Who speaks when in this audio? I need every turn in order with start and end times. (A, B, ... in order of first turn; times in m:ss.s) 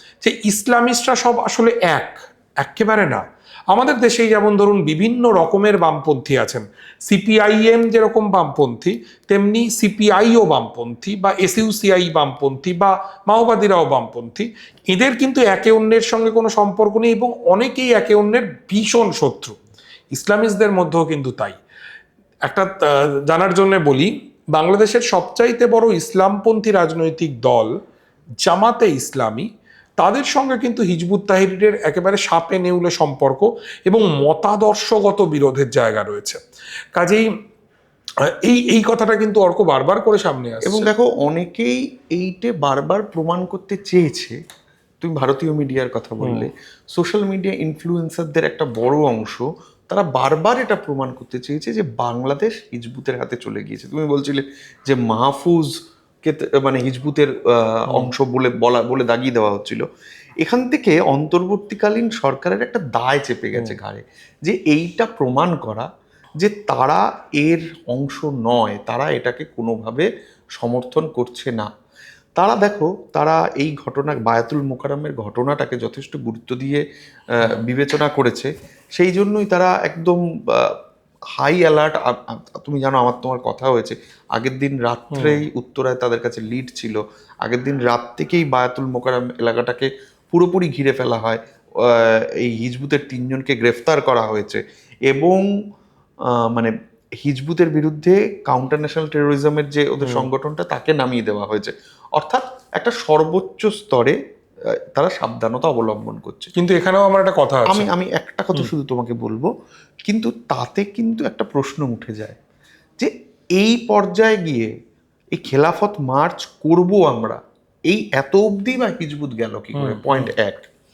0:00.2-0:19.6 A
0:20.1-0:21.6 A
0:22.4-0:27.7 A
0:28.4-0:29.5 A
0:30.0-0:36.4 A
0:36.9-0:37.3 A
0:38.2-0:40.9 A
0:40.6-0:44.4 B
0:45.0-0:59.8 B
0:46.2-0:46.5 A
1:00.4-1:05.9 B
1:06.4-1:11.7 B
1:12.4-1:16.8 B
1:17.4-1:20.7 B
1:21.4-1:35.5 B
1:25.1-1:25.4 A
1:36.2-1:44.2 B
1:44.9-1:46.5 B
1:46.6-1:47.9 A
1:47.7-1:49.5 B
1:50.1-1:52.4 B
1:53.0-1:54.7 B
1:55.3-2:00.7 B
1:59.7-2:00.3 A